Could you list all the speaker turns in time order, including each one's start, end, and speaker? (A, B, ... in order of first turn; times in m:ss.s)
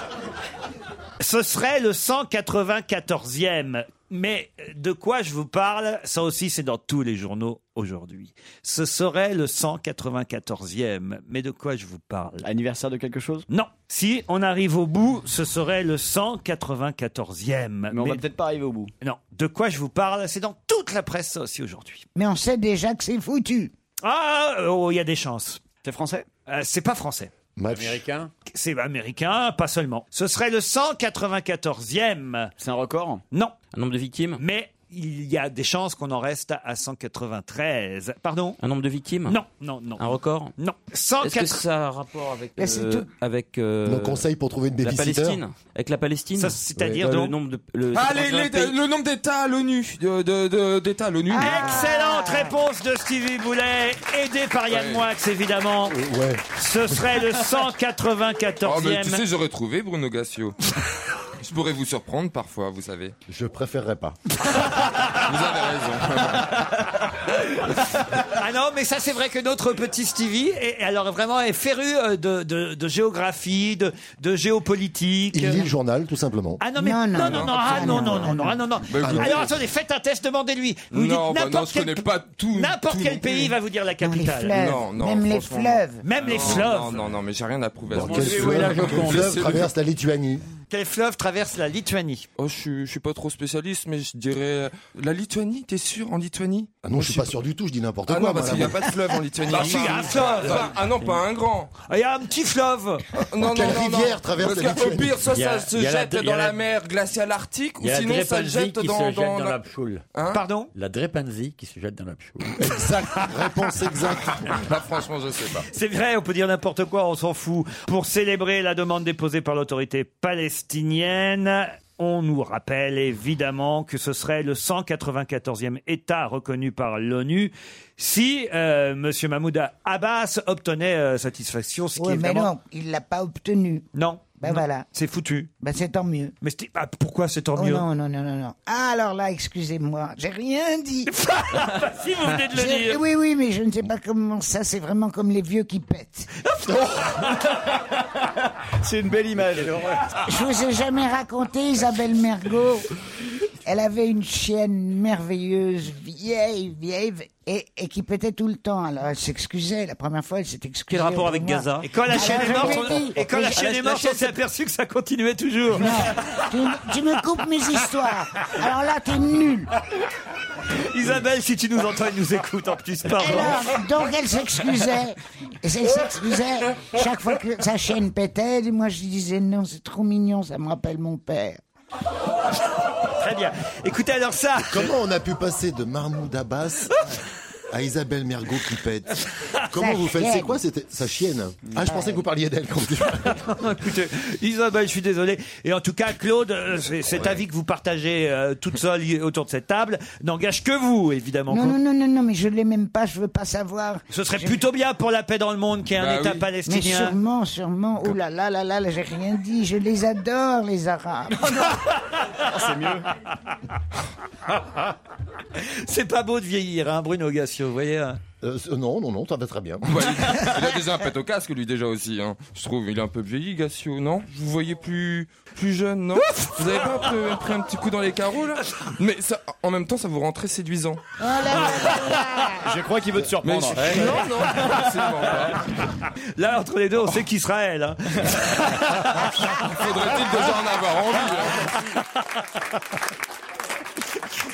0:01.2-0:12.5 A
0:12.4-0:13.5 B
0:13.5-0:18.2 A
0:17.9-0:18.9 B
0:19.0-0:22.1 A
0:22.2-0:23.7 C
0:24.0-0:25.6 A
0:25.8-0:26.3 B
0:26.5-0:27.3 A
0:27.6-0:28.0 D
0:27.7-0:28.3 E
0:28.5-0:32.5 A
0:32.6-0:33.2 B
0:33.3-0:33.6 A
0:33.7-0:34.4 F
0:34.4-0:38.6 A
0:38.6-0:39.4 F
0:39.3-0:41.6 A
0:40.0-0:40.5 F
0:41.2-0:44.3 F
0:42.6-0:43.1 C
0:43.8-0:45.4 D
0:44.8-0:48.8 F
0:46.4-0:47.3 A
0:46.8-0:47.0 D
0:47.9-0:51.8 G
0:51.3-0:52.6 C
0:51.3-0:56.0 A
0:54.7-0:55.0 G
0:55.9-0:56.4 D
0:56.5-0:59.2 A
0:58.6-1:00.6 G
1:01.4-1:03.2 G
1:03.3-1:04.2 D
1:05.0-1:06.7 G
1:08.2-1:15.7 A
1:15.3-1:16.6 D
1:16.6-1:24.6 A
1:16.8-1:18.7 C
1:17.2-1:18.4 G
1:18.9-1:19.5 G
1:19.0-1:19.5 D
1:20.9-1:23.5 G
1:24.0-1:26.0 C
1:24.5-1:29.7 G
1:26.0-1:27.0 A
1:27.9-1:29.6 E
1:27.9-1:30.4 D
1:30.7-1:32.3 A
1:32.4-1:37.4 G
1:36.8-1:39.2 D
1:38.1-1:41.7 G
1:39.5-1:40.7 A
1:41.9-1:43.0 A
1:43.2-1:49.6 G
1:43.4-1:45.2 D
1:45.3-1:46.6 E
1:47.8-1:50.0 E
1:50.1-1:50.4 G
1:50.3-1:50.7 A
1:50.7-1:52.8 E
1:52.6-1:54.7 D
1:54.5-1:55.7 G
1:55.7-2:12.5 A
2:12.0-2:14.9 C
2:14.0-2:15.5 A
2:15.6-2:16.3 C
2:16.4-2:17.8 A
2:17.6-2:21.1 C
2:21.1-2:23.0 A
2:22.5-2:26.3 C
2:26.6-2:27.3 A
2:26.8-2:28.0 B
2:28.6-2:30.2 B
2:30.2-2:32.9 C
2:33.6-2:43.7 C
2:40.9-2:44.4 F
2:41.8-2:46.5 A
2:45.8-2:49.7 C
2:50.8-2:53.6 A
2:53.1-3:01.6 C
3:03.2-3:04.9 A
3:04.7-3:07.1 D
3:07.7-3:13.4 D
3:09.7-3:10.6 C
3:11.9-3:12.2 C
3:13.2-3:21.8 A
3:21.5-3:24.6 C
3:24.1-3:27.2 A
3:26.0-3:26.4 G
3:26.7-3:31.6 C
3:32.4-3:33.1 B
3:35.6-3:38.2 A
3:38.4-3:39.9 D
3:39.9-3:51.0 G
3:46.2-3:47.0 A
3:51.2-3:52.7 C
3:52.6-3:54.9 B
3:53.4-3:55.8 G
3:56.4-3:59.6 A
3:59.5-4:01.7 G